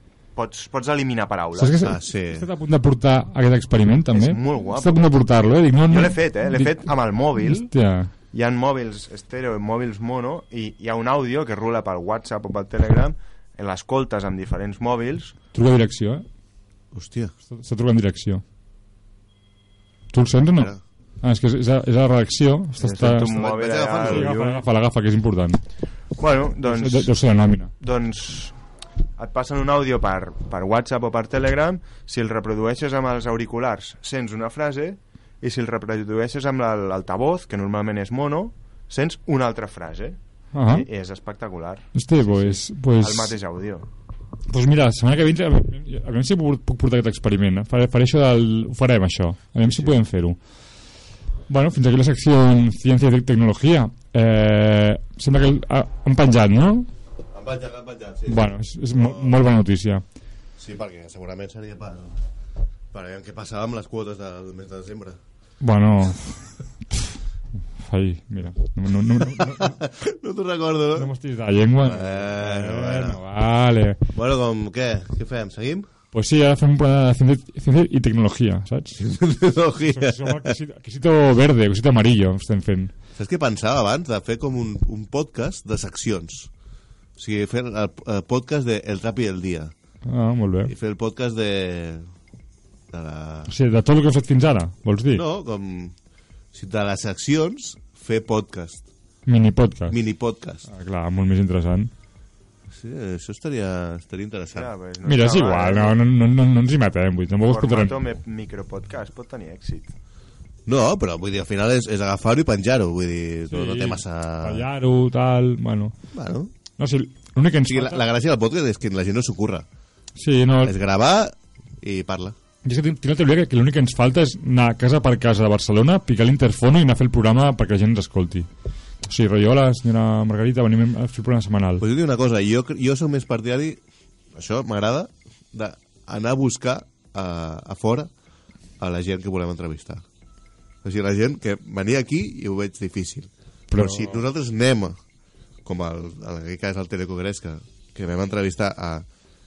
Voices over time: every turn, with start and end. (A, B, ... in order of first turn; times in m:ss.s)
0:00.3-0:01.8 A
0:01.6-0:08.1 B
0:01.8-0:02.5 C
0:04.1-0:05.1 A
0:05.9-0:07.7 A
0:08.3-0:15.4 A
0:15.5-0:16.2 B
0:16.9-0:17.3 C
0:17.5-0:18.4 B
0:20.1-0:23.4 B
0:20.6-0:20.8 C
0:22.8-0:24.6 A
0:23.1-0:24.3 C
0:24.0-0:25.6 B
0:26.2-0:27.1 A
0:26.6-0:27.7 B
0:27.8-0:28.6 A
0:29.2-0:43.9 A
0:40.5-0:40.8 B
0:41.9-0:43.3 B
0:44.5-0:50.4 B
0:51.5-0:56.9 B
0:57.3-0:59.4 C
0:58.3-1:00.0 B
1:00.6-1:02.2 C
1:02.9-1:05.2 C
1:05.6-1:07.1 B
1:07.8-1:09.8 B
1:09.2-1:11.1 C
1:10.9-1:14.0 B
1:11.8-1:13.2 C
1:14.1-1:15.9 C
1:16.1-1:19.0 B
1:19.0-1:20.6 C
1:19.8-1:22.9 B
1:23.2-1:26.5 C
1:27.2-1:29.7 C
1:30.0-1:30.7 B
1:30.6-1:32.1 C
1:32.9-1:33.5 C
1:33.5-1:35.2 B
1:35.1-1:35.9 C
1:36.5-1:38.8 C
1:39.2-1:40.0 B
1:39.9-1:40.6 C
1:40.7-1:41.9 B
1:42.7-1:44.7 C
1:44.5-1:46.0 A
1:45.0-1:48.0 B
1:47.5-1:49.9 A
1:50.6-1:54.6 C
1:53.5-1:55.9 B
1:56.1-1:56.5 C
1:56.8-1:58.0 B
1:57.6-1:59.6 C
2:00.2-2:00.7 B
2:00.6-2:02.4 C
2:02.6-2:08.5 B
2:09.0-2:11.8 B
2:11.8-2:13.8 C
2:14.3-2:18.1 C
2:18.8-2:20.0 C
2:20.8-2:25.0 C
2:23.7-2:24.2 B
2:25.6-2:29.0 C